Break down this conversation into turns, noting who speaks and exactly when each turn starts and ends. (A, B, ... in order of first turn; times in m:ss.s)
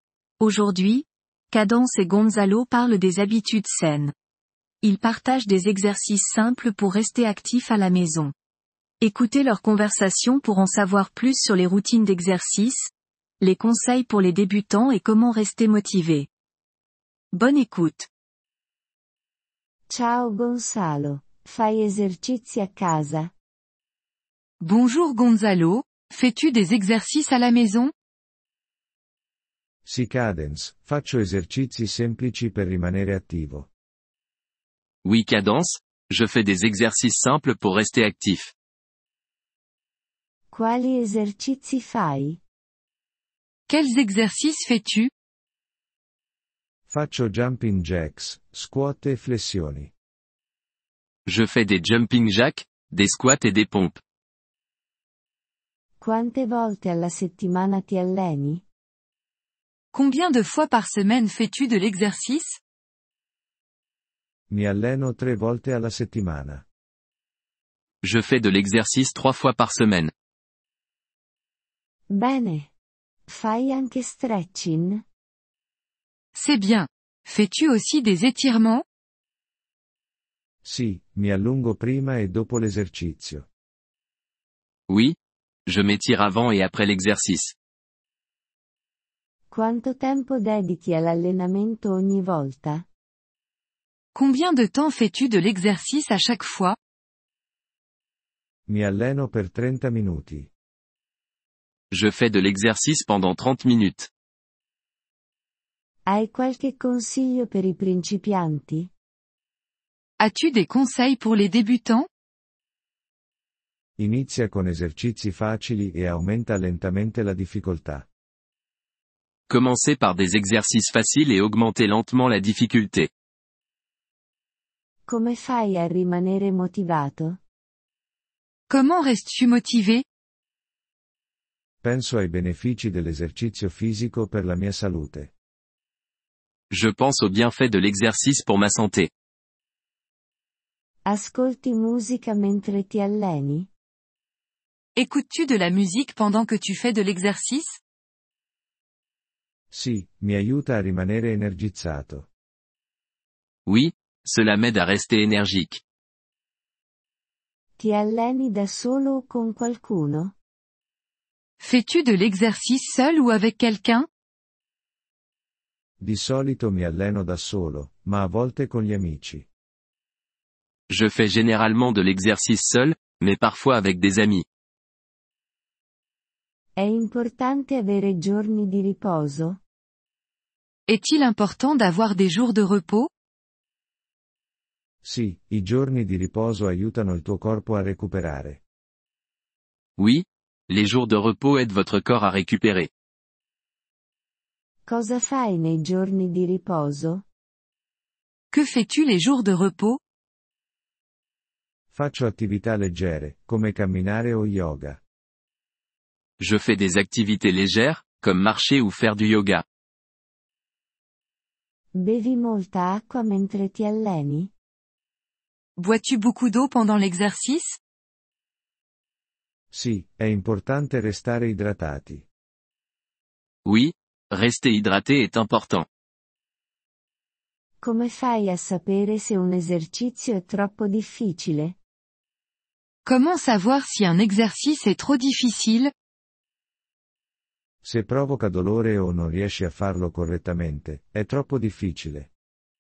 0:00.4-0:04.1 A
0:04.8-0:08.3 A
0:09.0-0:12.9 A
0:13.4-0:16.3 A
0:17.3-0:18.1 A
0:19.9-0:23.3 B
0:24.6-0:27.9 C
0:29.9-0:33.7 D
0:35.0-0:38.5 E
0:40.5-0:42.4 B
0:43.7-0:45.1 C
0:46.9-0:49.9 D
0:51.3-0:54.0 E
0:56.0-0:58.6 B
0:59.9-1:02.6 C
1:04.5-1:06.6 D
1:08.0-1:10.1 E
1:12.1-1:12.7 B
1:13.3-1:15.0 B
1:16.3-1:18.8 C
1:20.6-1:23.5 D
1:24.9-1:25.2 E
1:25.7-1:27.6 E
1:29.5-1:32.9 B
1:34.1-1:36.8 C
1:38.7-1:40.5 D
1:41.9-1:44.1 E
1:46.1-1:48.9 B
1:50.2-1:52.1 C
1:54.0-1:58.1 D
1:59.5-2:03.1 E
2:05.1-2:07.4 B
2:08.7-2:10.0 C
2:11.8-2:15.3 D
2:16.7-2:19.1 E
2:21.0-2:23.7 B
2:25.0-2:27.8 C
2:29.7-2:32.3 D
2:33.7-2:35.8 E
2:37.8-2:40.3 B
2:41.6-2:44.1 C
2:46.0-2:49.5 D
2:50.9-2:54.4 E
2:56.8-2:59.6 B
3:00.9-3:03.1 C
3:05.0-3:08.6 D
3:10.0-3:12.9 E
3:14.9-3:17.2 B
3:18.5-3:20.0 C
3:21.9-3:25.0 D
3:26.4-3:29.6 E
3:32.0-3:34.5 B
3:35.8-3:37.8 C
3:39.7-3:42.3 D
3:43.6-3:45.9 E
3:47.8-3:51.8 B
3:53.0-3:55.9 C
3:57.8-4:02.3 D